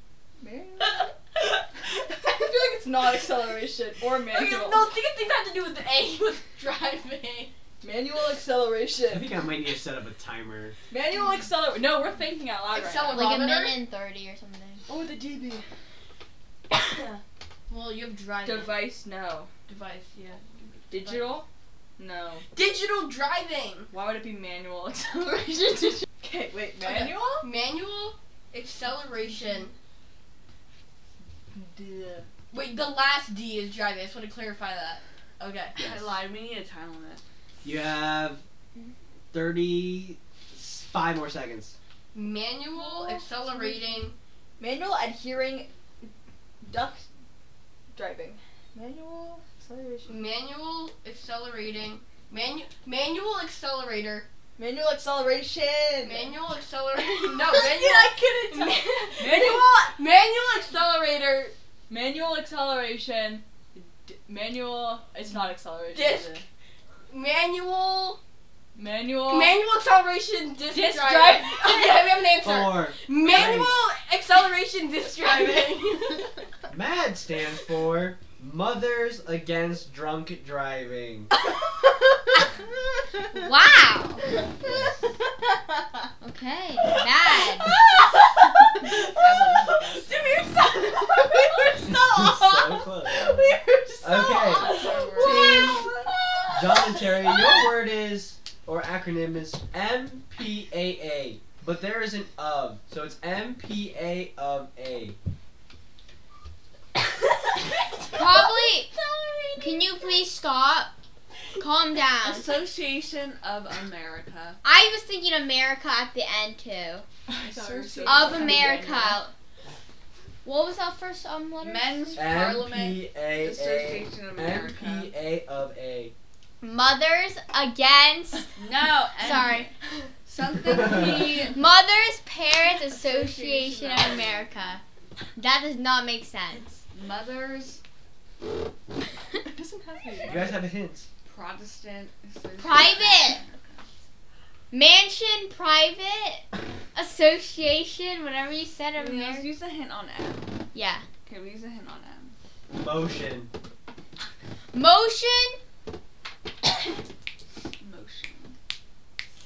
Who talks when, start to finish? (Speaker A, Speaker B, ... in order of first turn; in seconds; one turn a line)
Speaker A: 0.4-4.9
Speaker B: 4.3-7.5
Speaker A: 7.8-9.3
Speaker C: 9.1-10.8
Speaker A: 10.9-13.3
Speaker B: 12.7-13.8
Speaker D: 13.1-14.8
Speaker A: 14.9-15.6
Speaker B: 16.8-18.9
Speaker A: 18.4-19.5
Speaker B: 19.7-21.4
Speaker A: 20.9-21.4
Speaker A: 22.0-22.4
Speaker B: 22.5-23.9
Speaker A: 23.9-26.1
Speaker E: 26.2-27.2
Speaker A: 26.6-27.4
Speaker B: 26.8-29.7
Speaker A: 31.6-32.2
Speaker E: 31.8-32.2
Speaker B: 32.5-35.8
Speaker E: 35.8-37.2
Speaker C: 37.6-38.4
Speaker C: 39.3-41.8
Speaker B: 42.1-44.1
Speaker A: 42.9-43.2
Speaker A: 44.6-46.0
Speaker A: 46.6-47.0
Speaker A: 47.9-50.1
Speaker E: 48.8-49.6
Speaker B: 50.1-54.3
Speaker A: 54.6-56.2
Speaker E: 55.8-56.3
Speaker B: 56.0-61.5
Speaker A: 57.5-59.9
Speaker A: 61.9-66.4
Speaker B: 65.9-66.4
Speaker B: 67.1-68.2
Speaker A: 68.7-69.6
Speaker B: 69.2-76.3
Speaker A: 70.7-72.1
Speaker C: 72.4-73.7
Speaker C: 76.7-81.3
Speaker D: 83.3-84.2
Speaker C: 84.6-85.0
Speaker D: 86.2-87.7
Speaker A: 87.7-88.1
Speaker A: 88.7-92.0
Speaker E: 88.9-90.4
Speaker E: 91.6-96.1
Speaker C: 91.8-93.3
Speaker A: 93.2-95.9
Speaker C: 94.0-95.9
Speaker B: 94.8-95.2
Speaker C: 96.5-105.2
Speaker D: 108.1-108.9
Speaker A: 108.2-108.4
Speaker A: 109.0-109.8
Speaker D: 109.6-110.9
Speaker D: 111.6-112.5
Speaker E: 112.2-114.6
Speaker D: 114.6-117.0
Speaker A: 117.3-119.1
Speaker E: 117.3-119.2
Speaker D: 118.0-119.3
Speaker D: 120.4-122.2
Speaker E: 121.6-125.1
Speaker C: 122.1-126.1
Speaker D: 126.6-128.6
Speaker E: 128.6-129.7
Speaker D: 129.2-129.7
Speaker E: 130.2-131.6
Speaker D: 131.5-134.8
Speaker E: 132.9-134.4
Speaker D: 135.3-136.8
Speaker E: 136.9-137.8
Speaker A: 139.4-140.5
Speaker C: 140.2-141.1
Speaker E: 141.2-143.9
Speaker D: 142.6-143.4
Speaker D: 144.7-149.5
Speaker E: 148.9-150.6
Speaker D: 150.7-151.0
Speaker E: 151.2-152.3
Speaker C: 152.7-153.5
Speaker D: 154.7-155.6
Speaker E: 157.8-158.5